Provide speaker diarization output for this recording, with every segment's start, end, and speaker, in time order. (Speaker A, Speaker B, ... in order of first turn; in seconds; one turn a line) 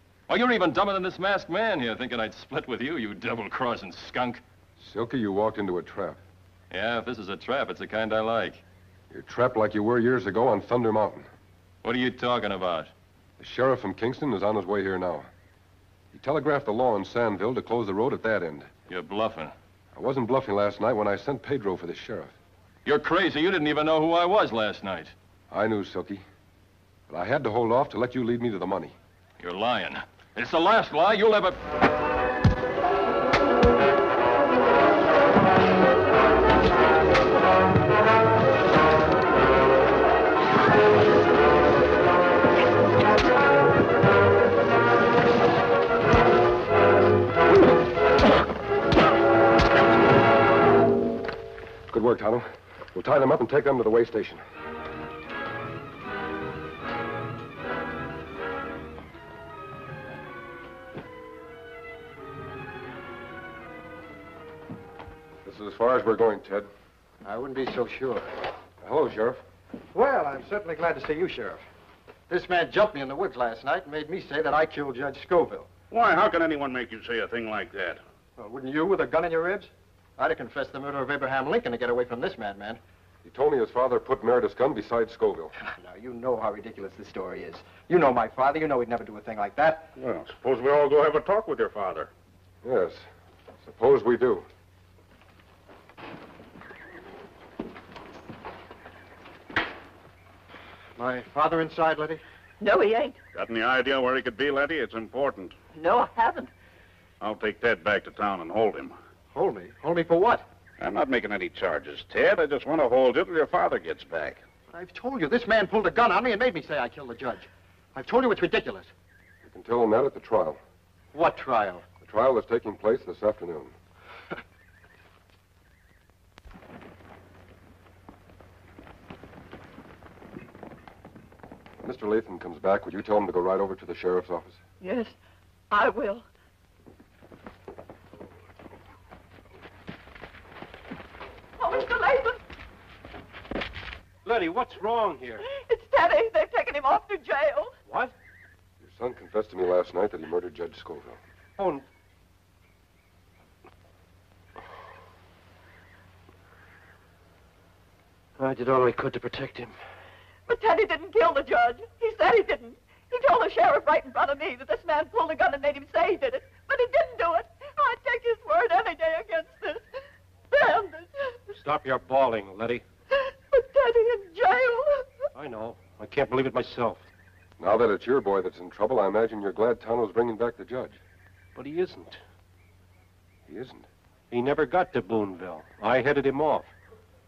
Speaker A: 0.3-4.4
Speaker B: 4.8-6.2
Speaker A: 6.7-8.6
Speaker B: 9.1-11.3
Speaker A: 11.8-12.9
Speaker B: 13.4-15.3
Speaker B: 16.1-18.7
Speaker A: 18.9-19.5
Speaker B: 19.9-22.3
Speaker A: 22.9-25.1
Speaker B: 25.5-26.2
Speaker B: 27.1-28.9
Speaker A: 29.4-31.6
Speaker B: 51.9-54.4
Speaker B: 65.4-66.7
Speaker C: 67.2-68.3
Speaker B: 68.8-69.4
Speaker C: 69.9-71.6
Speaker C: 72.3-75.7
Speaker D: 75.9-78.0
Speaker C: 78.4-82.8
Speaker B: 83.2-85.5
Speaker C: 85.7-89.9
Speaker D: 90.0-92.1
Speaker B: 92.6-93.0
Speaker B: 93.6-94.5
Speaker C: 101.0-102.2
Speaker E: 102.6-103.2
Speaker D: 103.3-105.5
Speaker E: 105.8-106.5
Speaker D: 107.2-109.0
Speaker C: 109.3-110.4
Speaker D: 110.8-114.4
Speaker C: 114.7-118.9
Speaker B: 119.4-120.6
Speaker C: 121.1-121.8
Speaker B: 122.0-123.7
Speaker B: 131.8-134.6
Speaker E: 134.8-135.1
Speaker E: 135.7-136.2
Speaker E: 141.6-142.4
Speaker F: 144.2-145.5
Speaker E: 145.5-147.7
Speaker F: 147.9-148.1
Speaker B: 148.8-151.2
Speaker F: 151.6-151.8
Speaker F: 158.4-159.7
Speaker E: 160.5-169.8
Speaker E: 170.5-171.5
Speaker F: 171.5-172.8
Speaker E: 173.1-175.0
Speaker F: 175.3-177.1
Speaker B: 177.6-181.0
Speaker F: 181.5-182.2
Speaker B: 183.5-183.8
Speaker F: 184.3-186.7